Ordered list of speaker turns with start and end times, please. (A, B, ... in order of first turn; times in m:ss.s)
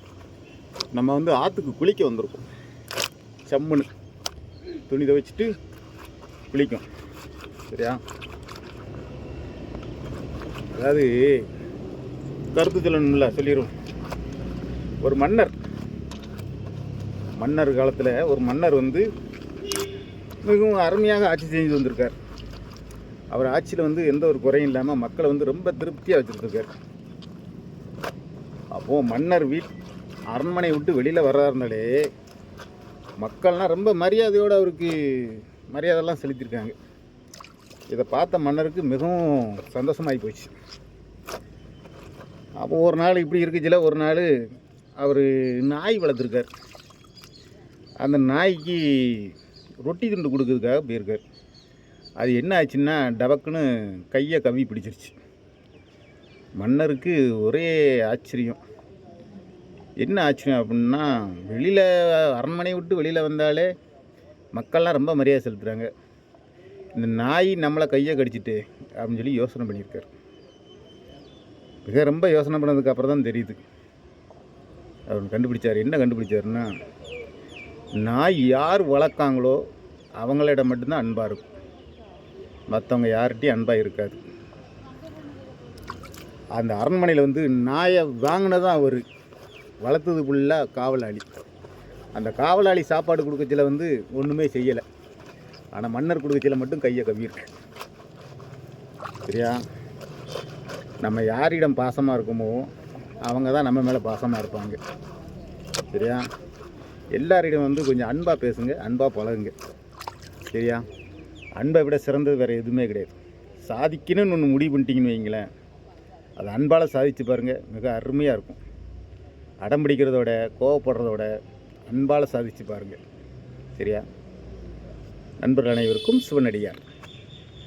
0:00.9-0:02.5 A
0:03.5-0:03.9 A
0:04.9-0:05.6 A
0:06.5-0:06.8 A
0:07.7-0:08.0 A
0:10.7-0:11.5 A
0:12.5-0:13.7 A
0:15.0-0:15.6 A
0:17.4-0:19.1 A
0:20.4-0:22.2 A
0:23.3-0:26.7 A
0:28.7-0:29.7 A
0:30.3-0:32.0 A
0:33.2-0:36.8 A
0:37.9-0:40.5 A
0:42.6-0:44.3 A
0:45.0-0:46.5 A
0:48.0-0:51.2 A
0:52.2-0:55.2 A
0:56.6-0:58.6 A
1:00.0-1:03.7 A
1:04.5-1:05.9 A
1:07.0-1:10.1 A
1:11.8-1:13.6 A
1:15.1-1:16.7 A
1:18.0-1:19.6 A
1:20.2-1:21.4 A
1:22.7-1:24.2 A
1:26.6-1:29.0 A
1:29.8-1:31.2 A
1:32.2-1:34.8 A
1:35.7-1:37.5 A
1:39.3-1:39.6 A
1:41.0-1:42.7 A
1:43.2-1:44.8 A
1:45.9-1:46.2 A
1:47.1-1:49.5 A
1:50.5-1:50.8 A
1:51.6-1:53.1 A
1:53.6-1:55.5 A
1:56.4-1:58.6 A
1:59.6-2:01.3 A
2:01.9-2:03.0 A
2:03.8-2:04.0 A
2:05.4-2:06.8 A